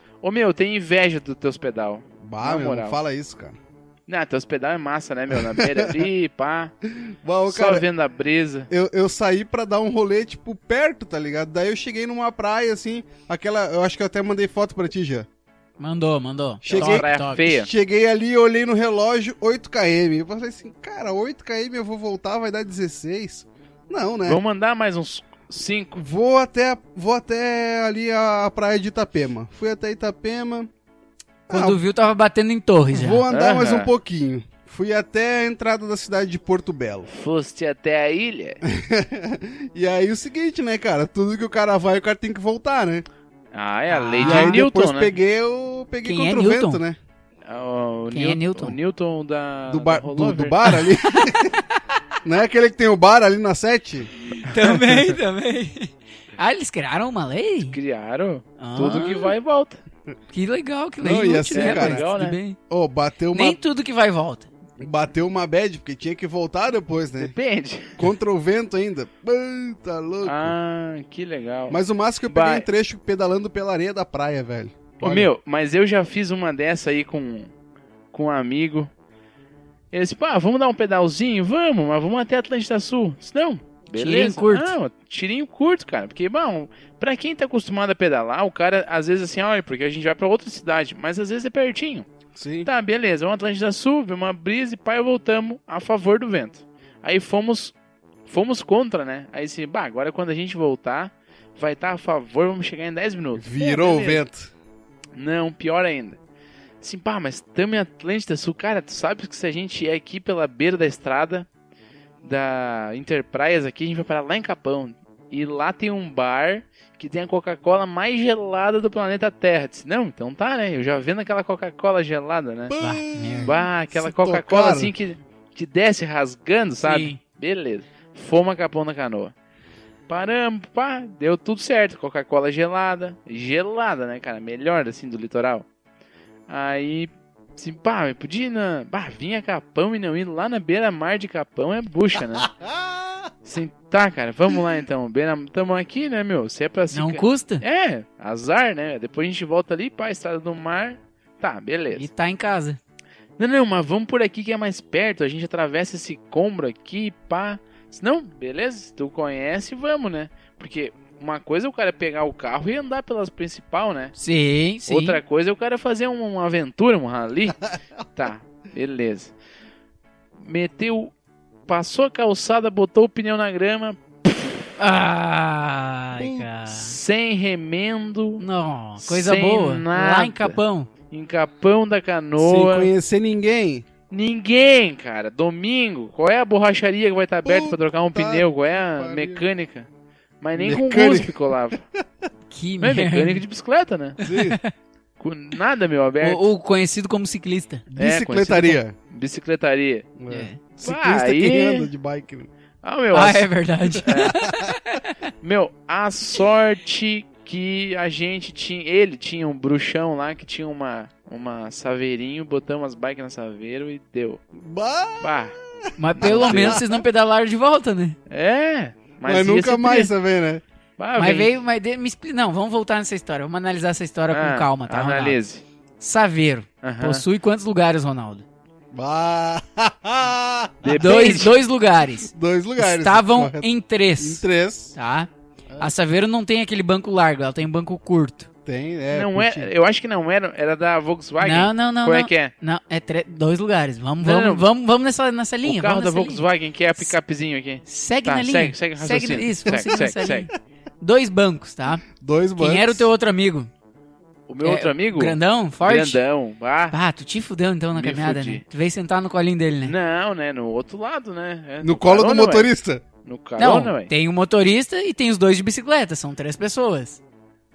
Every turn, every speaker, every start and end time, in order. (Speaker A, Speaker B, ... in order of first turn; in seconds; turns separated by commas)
Speaker A: 0.2-3.0, Speaker B: 2.2-3.6, Speaker A: 4.1-6.7, Speaker B: 5.3-5.9, Speaker B: 6.8-7.8, Speaker A: 7.5-8.7, Speaker B: 8.7-15.3, Speaker C: 15.8-17.5, Speaker B: 16.6-24.4, Speaker A: 16.7-17.7, Speaker A: 24.2-26.0, Speaker B: 25.9-30.7, Speaker B: 31.5-31.8, Speaker C: 31.5-33.2, Speaker B: 32.9-37.1, Speaker A: 33.3-33.9, Speaker A: 37.1-38.6, Speaker B: 38.6-43.0, Speaker A: 43.5-45.1, Speaker C: 43.9-44.6, Speaker B: 44.2-47.0, Speaker C: 46.0-46.8, Speaker A: 47.4-50.6, Speaker C: 48.1-48.8, Speaker B: 49.7-51.6, Speaker C: 50.7-51.8, Speaker B: 52.2-54.1, Speaker C: 54.4-57.8, Speaker A: 57.6-59.8, Speaker C: 58.6-59.3, Speaker C: 60.3-62.6, Speaker B: 61.0-62.0, Speaker A: 61.5-62.4, Speaker B: 62.7-63.6, Speaker C: 63.3-64.5, Speaker B: 64.8-67.3, Speaker A: 67.2-68.0, Speaker B: 68.0-70.5, Speaker A: 70.2-72.7, Speaker B: 71.7-75.3, Speaker A: 75.0-77.5, Speaker A: 78.1-78.9, Speaker A: 79.9-92.0, Speaker C: 84.0-84.7, Speaker B: 92.3-92.7, Speaker A: 92.7-97.7, Speaker A: 98.2-104.2, Speaker B: 103.3-104.5, Speaker A: 105.2-106.2, Speaker A: 106.8-111.5, Speaker A: 112.2-122.8, Speaker B: 122.7-124.9, Speaker C: 122.8-123.5, Speaker A: 123.4-129.3, Speaker C: 126.8-127.2, Speaker A: 130.1-135.7, Speaker A: 136.5-142.5, Speaker B: 142.6-143.3, Speaker A: 143.4-152.1, Speaker C: 146.9-147.6, Speaker C: 151.9-152.8, Speaker A: 153.4-164.1, Speaker C: 164.2-165.2, Speaker A: 164.9-167.6, Speaker A: 168.1-169.3, Speaker A: 170.4-171.1, Speaker A: 171.7-174.7, Speaker C: 174.8-176.9, Speaker B: 176.2-176.5, Speaker A: 176.7-178.4, Speaker C: 178.4-180.9, Speaker A: 179.0-180.6, Speaker A: 181.1-182.9, Speaker B: 182.4-183.8, Speaker A: 184.1-189.9, Speaker B: 187.4-189.4, Speaker A: 190.4-191.8, Speaker B: 190.6-191.3, Speaker C: 192.5-193.4, Speaker A: 192.8-194.2, Speaker C: 194.2-194.7, Speaker B: 194.2-194.6, Speaker A: 195.2-196.4, Speaker C: 196.2-197.9, Speaker B: 197.9-198.9, Speaker A: 198.0-200.1, Speaker B: 200.2-202.5, Speaker C: 200.3-200.6, Speaker A: 200.8-201.9, Speaker A: 202.8-204.4, Speaker C: 203.1-205.1, Speaker B: 204.2-204.7, Speaker A: 205.4-214.4, Speaker B: 214.5-217.0, Speaker A: 215.2-215.6, Speaker C: 216.0-218.2, Speaker A: 216.2-216.8, Speaker A: 218.3-220.1, Speaker B: 219.2-220.6, Speaker A: 221.0-221.5, Speaker C: 221.1-225.4, Speaker A: 224.3-225.6, Speaker C: 226.0-228.4, Speaker A: 226.8-227.2, Speaker B: 228.9-231.0, Speaker A: 230.8-231.6, Speaker C: 230.9-238.5, Speaker B: 232.2-234.9, Speaker B: 238.7-239.7, Speaker A: 239.1-242.5, Speaker C: 241.4-246.4, Speaker A: 244.2-244.7, Speaker A: 245.6-250.5, Speaker C: 247.8-252.0, Speaker B: 249.7-250.4, Speaker B: 252.1-253.1, Speaker C: 252.6-253.7, Speaker A: 254.5-256.9, Speaker C: 254.6-256.2, Speaker C: 256.9-259.9, Speaker A: 257.9-258.6, Speaker A: 259.8-262.7, Speaker B: 261.8-263.0, Speaker A: 263.2-264.1, Speaker C: 263.6-267.2